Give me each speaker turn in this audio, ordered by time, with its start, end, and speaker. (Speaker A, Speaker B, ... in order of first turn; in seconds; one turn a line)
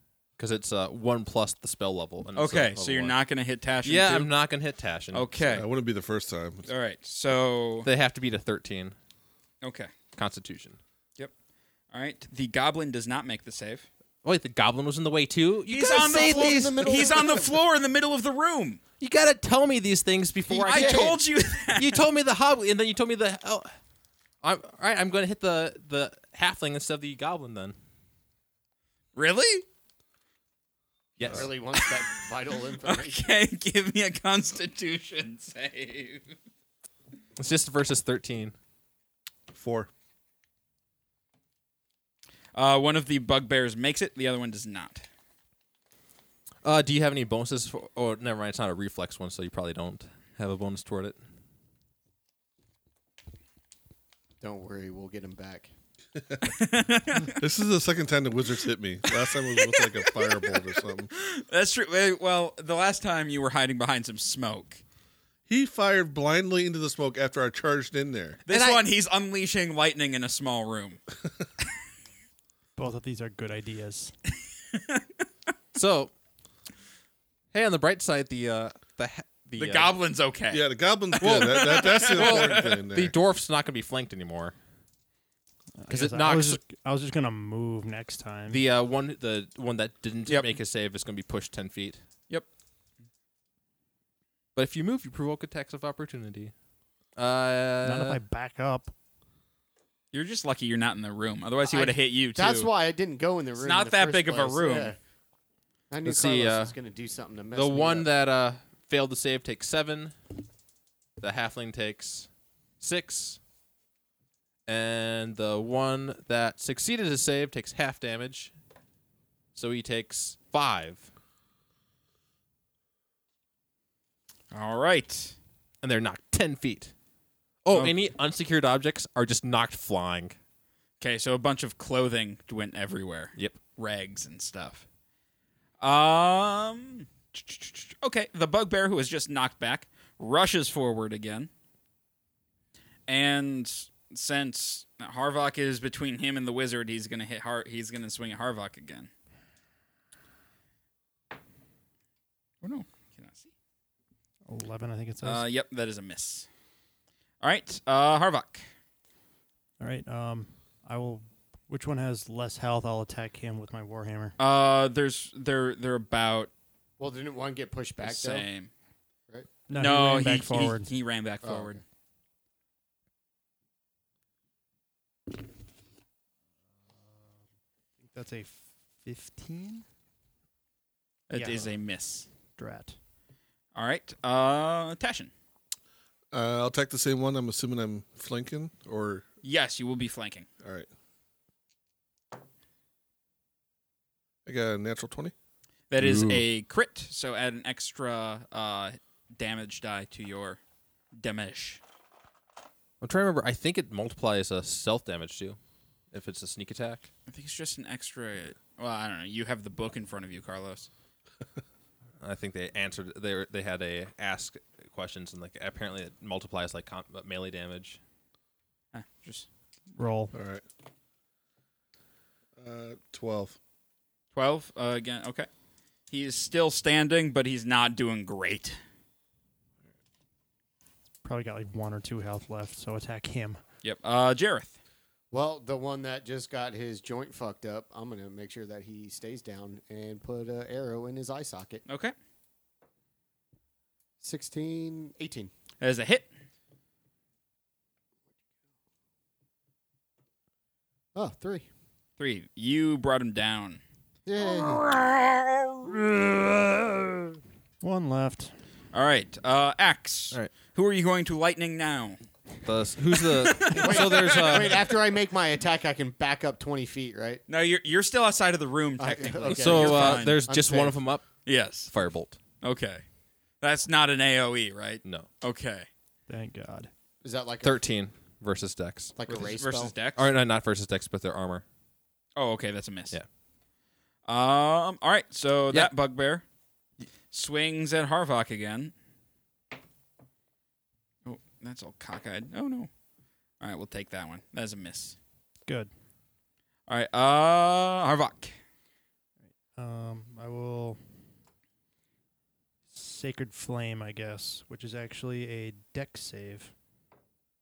Speaker A: 0.4-3.2
Speaker B: 2.4-4.3
Speaker A: 3.8-5.3
Speaker B: 5.1-5.7
Speaker C: 5.4-6.7
Speaker B: 6.7-7.9
Speaker A: 7.8-9.0
Speaker B: 9.6-9.9
Speaker A: 10.1-10.8
Speaker B: 11.9-13.9
Speaker A: 14.2-17.1
Speaker B: 15.7-18.8
Speaker D: 15.9-17.6
Speaker A: 19.0-23.7
Speaker D: 20.5-21.2
Speaker B: 20.6-22.0
Speaker A: 24.4-27.8
Speaker B: 29.1-29.6
Speaker A: 31.2-31.5
Speaker D: 31.2-33.2
Speaker B: 32.8-36.4
Speaker A: 37.4-38.5
Speaker C: 39.5-39.9
Speaker B: 42.5-45.1
Speaker A: 46.6-51.2
Speaker D: 54.4-55.7
Speaker C: 56.2-56.5
Speaker B: 56.5-57.4
Speaker C: 57.3-61.1
Speaker B: 59.1-60.6
Speaker B: 61.1-64.8
Speaker C: 65.5-68.4
Speaker B: 68.5-71.0
Speaker A: 68.5-68.8
Speaker E: 72.8-74.1
Speaker B: 74.7-75.0
Speaker A: 75.7-76.1
Speaker A: 77.5-79.9
Speaker B: 79.6-82.8
Speaker C: 80.5-83.1
Speaker A: 81.2-84.5
Speaker E: 85.8-88.6
Speaker A: 85.9-86.6
Speaker A: 88.5-92.0
Speaker B: 90.3-90.5
Speaker A: 94.5-96.5
Speaker A: 97.2-98.2
Speaker E: 97.8-98.9
Speaker B: 100.1-102.7
Speaker D: 101.6-105.0
Speaker B: 103.6-105.0
Speaker D: 105.9-108.1
Speaker A: 106.0-106.8
Speaker A: 107.5-110.1
Speaker A: 111.2-112.3
Speaker A: 112.8-113.4
Speaker A: 114.7-118.5
Speaker A: 119.5-121.1
Speaker B: 124.5-125.4
Speaker A: 125.8-126.9
Speaker A: 127.6-130.4
Speaker B: 131.0-134.8
Speaker B: 135.8-141.5
Speaker B: 143.1-149.1
Speaker B: 152.6-153.5
Speaker E: 154.5-155.4
Speaker B: 155.2-156.5
Speaker B: 157.4-158.6
Speaker E: 159.8-164.4
Speaker B: 164.4-166.5
Speaker D: 167.0-168.5
Speaker B: 168.0-168.7
Speaker E: 169.7-170.9
Speaker B: 169.7-171.8
Speaker D: 171.4-171.8
Speaker E: 178.0-179.8
Speaker B: 181.3-182.3
Speaker E: 181.3-181.7
Speaker E: 182.6-182.9
Speaker B: 183.8-185.3
Speaker C: 186.3-189.2
Speaker B: 189.4-190.5
Speaker C: 190.6-190.9
Speaker C: 194.5-195.3
Speaker B: 195.9-200.6
Speaker C: 196.0-196.4
Speaker A: 196.1-196.4
Speaker B: 201.1-201.8
Speaker A: 203.0-205.6
Speaker A: 206.1-207.1
Speaker B: 207.3-210.9
Speaker A: 212.2-218.0
Speaker B: 218.9-219.5
Speaker E: 220.0-220.3
Speaker C: 220.3-220.6
Speaker C: 222.6-223.6
Speaker B: 224.3-225.5
Speaker B: 226.1-228.8
Speaker E: 231.2-233.6
Speaker B: 233.8-234.8
Speaker D: 235.3-241.8
Speaker B: 241.9-242.1
Speaker D: 244.2-245.5
Speaker B: 245.8-246.3
Speaker D: 251.1-251.7
Speaker B: 252.2-253.8
Speaker D: 254.3-254.9
Speaker B: 254.4-256.0
Speaker E: 257.8-258.5
Speaker B: 258.9-262.2
Speaker A: 262.6-264.9
Speaker B: 263.1-264.9
Speaker D: 263.7-267.4
Speaker B: 267.5-270.4
Speaker D: 269.0-271.0
Speaker A: 269.5-271.2
Speaker B: 271.5-271.9
Speaker A: 271.9-272.4
Speaker B: 272.6-273.0
Speaker B: 273.6-275.9
Speaker E: 276.3-276.9
Speaker D: 277.2-277.8
Speaker A: 277.6-279.1
Speaker D: 279.1-279.9
Speaker B: 279.3-280.3
Speaker A: 280.1-281.6
Speaker B: 282.4-283.2
Speaker B: 284.3-286.4
Speaker B: 287.3-288.9
Speaker B: 291.2-292.9
Speaker B: 293.6-295.1
Speaker B: 296.9-298.5
Speaker E: 299.8-301.0
Speaker E: 302.9-306.7